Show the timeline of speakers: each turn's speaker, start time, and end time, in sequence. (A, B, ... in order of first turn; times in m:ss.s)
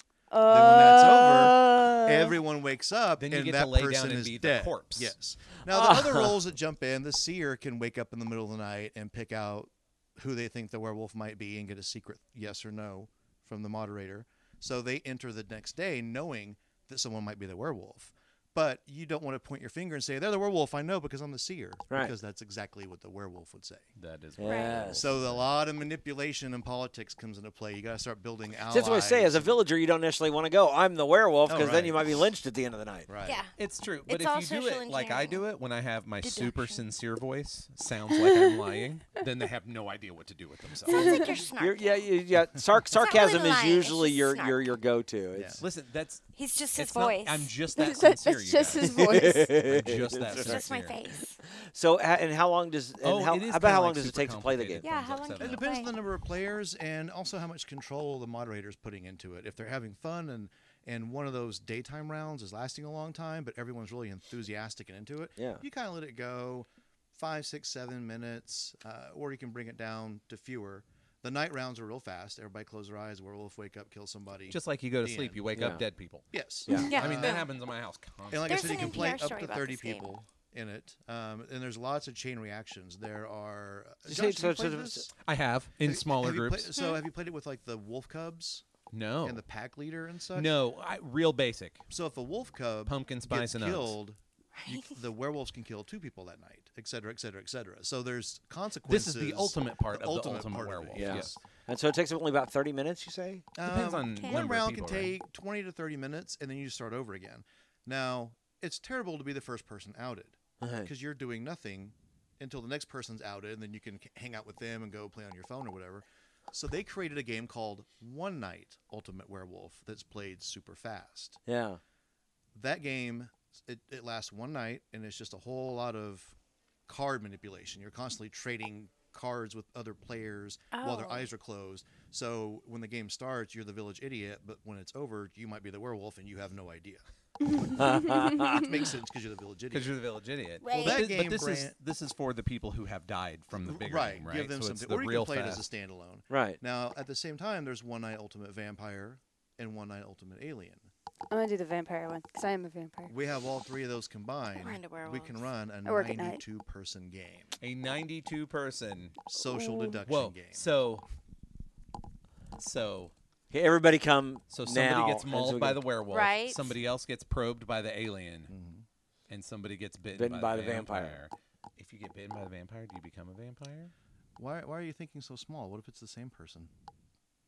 0:00.3-0:02.4 A
0:00.4-0:23.9 B
0:03.2-0:05.1 C
0:05.7-0:06.4 D
0:24.0-0:25.4 C
0:24.4-0:25.1 D
0:24.4-0:24.9 E
0:24.9-0:29.6 B
0:28.7-0:33.1 D
0:31.4-0:32.3 B
0:33.1-0:33.4 B
0:33.2-0:33.5 E
0:33.5-0:41.3 C
0:34.0-0:35.4 E
0:36.2-0:36.8 E
0:40.8-0:42.1 E
0:40.9-0:41.2 A
0:41.6-0:45.6 D
0:42.9-0:44.8 E
0:45.3-0:45.6 B
0:45.6-0:51.0 C
0:46.3-0:47.5 E
0:47.8-0:49.6 A
0:48.8-0:50.6 D
0:50.3-0:51.4 E
0:51.5-0:54.9 D
0:53.0-0:55.7 C
0:54.8-0:56.0 E
0:55.4-1:15.5 B
1:05.4-1:05.6 D
1:14.5-1:19.0 C
1:15.5-1:15.8 D
1:16.3-1:17.5 B
1:16.6-1:17.0 D
1:16.7-1:17.5 E
1:18.3-1:25.1 B
1:18.4-1:20.1 E
1:24.1-1:25.1 D
1:25.2-1:26.7 C
1:25.8-1:28.6 B
1:26.8-1:27.0 E
1:28.9-1:29.4 C
1:29.2-1:30.6 B
1:30.3-1:31.8 C
1:31.9-1:41.4 B
1:32.9-1:34.0 C
1:34.6-1:34.9 E
1:38.8-1:41.3 C
1:40.9-1:43.4 D
1:43.5-2:01.4 B
1:43.6-1:45.2 C
1:44.1-1:44.4 E
1:50.6-1:50.9 D
2:01.4-2:01.8 D
2:02.5-2:06.4 B
2:06.9-2:17.0 B
2:10.7-2:11.3 E
2:17.7-2:18.8 D
2:18.5-2:20.0 B
2:19.7-2:25.6 C
2:20.6-2:21.0 E
2:20.6-2:21.8 B
2:23.5-2:30.9 B
2:26.3-2:26.6 D
2:31.3-2:33.1 A
2:33.1-2:37.5 B
2:34.5-2:35.4 E
2:35.8-2:36.4 A
2:37.6-2:39.2 C
2:39.3-2:40.7 B
2:39.4-2:40.0 A
2:40.0-2:41.0 C
2:42.6-2:43.1 C
2:43.5-2:45.8 D
2:44.5-2:48.5 C
2:46.1-2:46.7 E
2:48.5-2:48.8 B
2:49.3-2:53.9 C
2:50.1-2:51.2 D
2:54.4-2:56.7 B